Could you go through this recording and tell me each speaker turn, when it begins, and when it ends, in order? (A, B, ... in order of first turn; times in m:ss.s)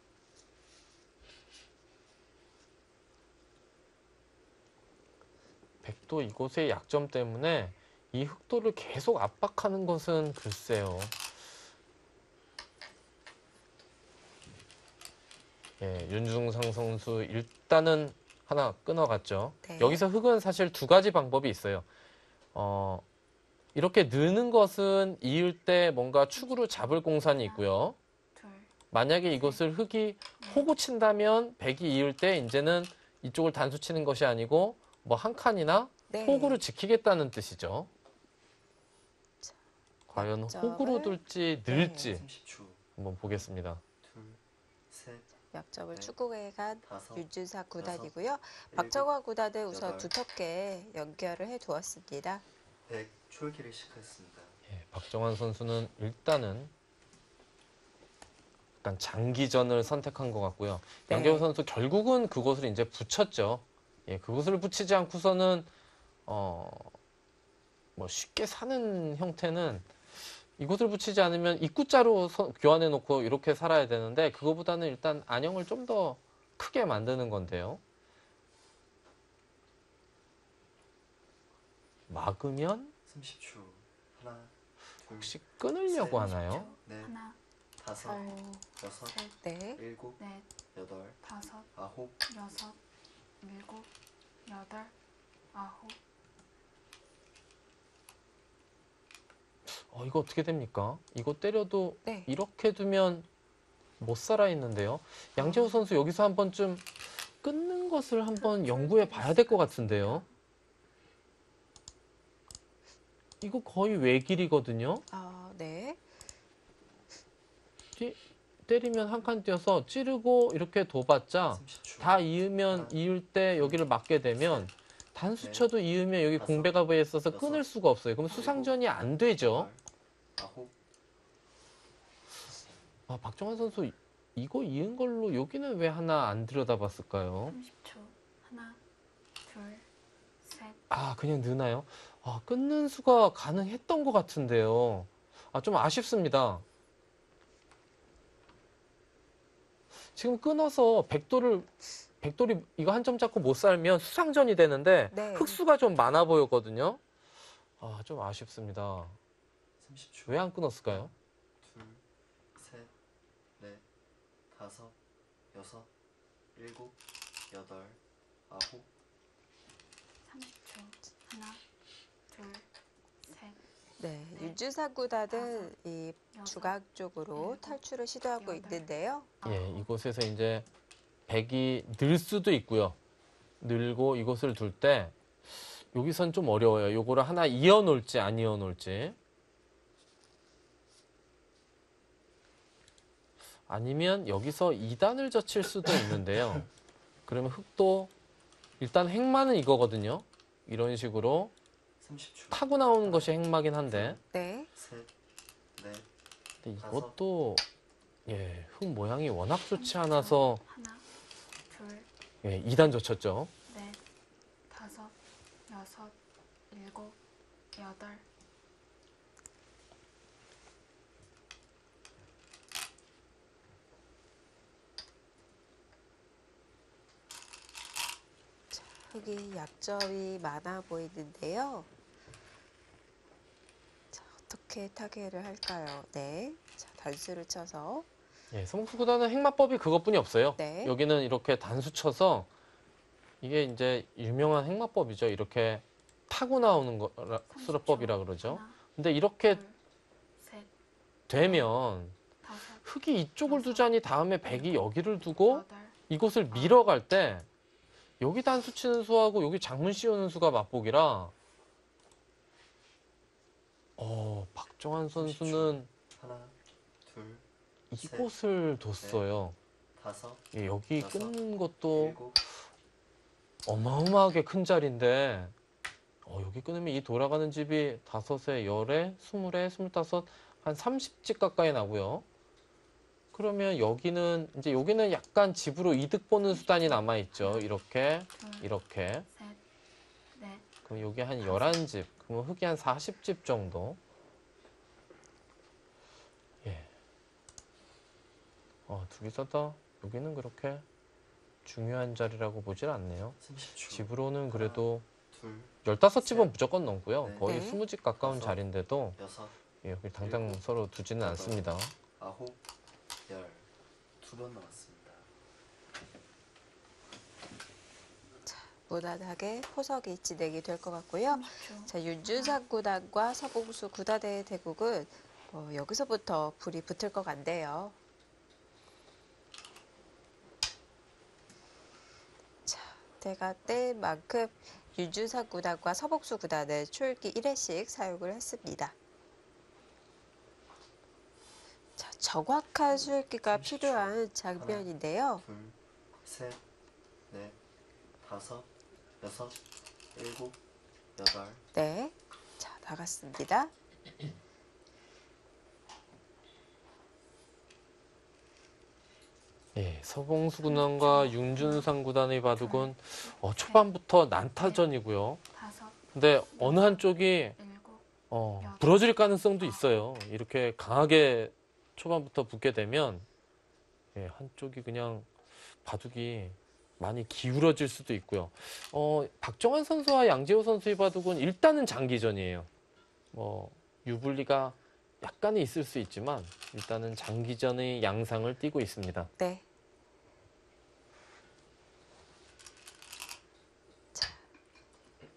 0:05.8-0:11.2 A
0:15.8-0:21.9 A
0:19.6-0:20.0 B
0:22.6-0:23.0 A
0:23.8-0:28.0 A
0:26.4-0:27.6 C
0:28.4-0:28.8 C
0:28.9-0:37.9 A
0:30.4-0:30.7 C
0:36.1-0:36.6 B
0:40.1-0:42.3 A
0:40.1-0:42.1 B
0:42.0-0:42.9 D
0:43.0-0:43.8 A
0:44.0-0:45.3 D
0:45.5-0:52.4 B
0:46.8-0:49.1 D
0:49.7-0:50.1 D
0:52.9-0:54.6 D
0:54.7-0:56.7 A
0:58.8-1:05.7 A
1:01.1-1:01.5 B
1:06.3-1:06.9 A
1:08.0-1:09.9 A
1:10.6-1:17.8 A
1:22.1-1:22.9 A
1:23.1-1:27.2 D
1:25.1-1:26.7 A
1:26.1-1:27.4 C
1:27.8-1:29.2 D
1:28.0-1:29.4 C
1:29.4-1:29.8 B
1:29.8-1:30.2 D
1:30.2-1:30.5 C
1:30.7-1:31.2 D
1:31.2-1:31.7 C
1:31.7-1:32.2 D
1:32.3-1:32.8 C
1:33.4-1:33.9 C
1:34.5-1:34.9 C
1:35.5-1:36.0 C
1:39.7-1:43.3 A
1:42.0-1:42.3 B
1:44.0-1:50.3 A
1:45.4-1:45.8 B
1:48.4-1:50.3 C
1:53.4-1:55.0 A
1:55.1-1:56.0 B
1:58.0-2:09.7 A
2:01.5-2:03.0 D
2:04.4-2:04.7 D
2:05.4-2:05.7 D
2:06.4-2:07.6 D
2:08.3-2:08.8 D
2:09.3-2:09.8 D
2:10.4-2:10.8 D
2:13.1-2:17.6 A
2:17.5-2:18.8 C
2:19.5-2:19.9 C
2:20.4-2:20.8 C
2:20.9-2:26.6 A
2:30.2-2:31.7 A
2:32.2-2:37.0 A
2:35.1-2:35.6 B
2:37.8-2:39.2 A
2:39.8-2:42.0 D
2:40.3-2:41.1 A
2:42.6-2:42.9 D
2:43.6-2:43.8 D
2:44.5-2:45.0 D
2:45.5-2:45.9 D
2:46.6-2:47.0 D
2:47.5-2:48.9 D
2:50.2-2:51.6 C
2:52.3-2:52.7 C
2:53.2-2:53.6 C
2:54.0-2:59.3 B
2:55.3-2:55.7 C
2:56.3-2:56.8 C
2:57.3-2:58.8 C
2:59.4-2:59.9 C
2:59.4-3:00.7 A
3:01.3-3:03.0 A
3:03.6-3:05.1 A
3:05.9-3:09.2 A
3:13.7-3:16.7 A
3:17.3-3:18.1 A
3:18.8-3:21.5 A
3:22.0-3:25.1 D
3:22.5-3:24.2 A
3:24.3-3:24.7 B
3:25.8-3:26.1 D
3:26.6-3:27.6 A
3:26.8-3:27.2 D
3:28.3-3:30.6 A
3:29.7-3:31.1 C
3:31.7-3:32.1 C
3:32.4-3:33.5 A
3:33.7-3:34.0 C
3:34.7-3:35.2 C
3:35.7-3:36.2 C
3:36.7-3:37.2 C
3:37.8-3:38.3 C
3:48.7-3:51.9 B
3:54.1-3:58.1 B
3:58.5-4:02.5 A
4:00.6-4:00.9 B
4:03.4-4:09.6 A
4:07.5-4:08.8 C
4:09.4-4:09.8 C
4:10.4-4:10.7 C
4:11.3-4:12.2 A
4:11.3-4:11.7 C
4:12.4-4:12.9 C
4:12.8-4:17.5 A
4:13.4-4:16.0 C
4:16.5-4:16.8 C
4:18.2-4:21.3 A
4:24.0-4:25.9 A
4:25.2-4:27.4 D
4:27.9-4:29.6 A
4:28.0-4:28.3 D
4:30.0-4:31.4 D
4:30.5-4:32.2 A
4:31.9-4:32.4 D
4:33.7-4:35.5 A
4:36.2-4:42.2 A
4:43.3-4:49.3 A
4:46.5-4:47.7 C
4:48.3-4:48.7 C
4:49.3-4:49.6 C
4:50.3-4:50.7 C
4:50.9-4:54.0 A
4:51.4-4:51.8 C
4:56.6-4:56.9 A
4:58.9-5:00.8 A
5:01.6-5:03.4 A
5:03.4-5:06.5 D
5:03.9-5:05.1 A
5:05.8-5:09.2 A
5:07.2-5:07.6 D
5:07.4-5:07.8 B
5:08.2-5:08.6 D
5:09.2-5:09.6 D
5:09.8-5:11.9 A
5:10.2-5:10.6 D
5:11.2-5:12.6 D
5:13.3-5:13.7 D
5:14.2-5:15.3 D
5:18.5-5:28.0 B
5:21.3-5:22.6 C
5:32.7-5:39.0 B
5:42.0-5:45.4 B
5:43.5-5:44.9 D
5:45.4-5:46.6 D
5:47.3-5:47.6 D
5:48.2-5:49.6 D
5:50.1-5:50.6 D
5:51.2-5:51.6 D
5:51.7-5:53.7 B
5:59.8-6:05.4 A
6:00.6-6:01.9 C
6:02.5-6:04.9 C
6:05.5-6:09.9 C
6:06.1-6:07.6 A
6:08.3-6:13.3 A
6:14.2-6:15.3 A
6:15.8-6:22.7 A
6:23.3-6:29.3 A
6:29.4-6:29.6 B
6:34.1-6:34.4 B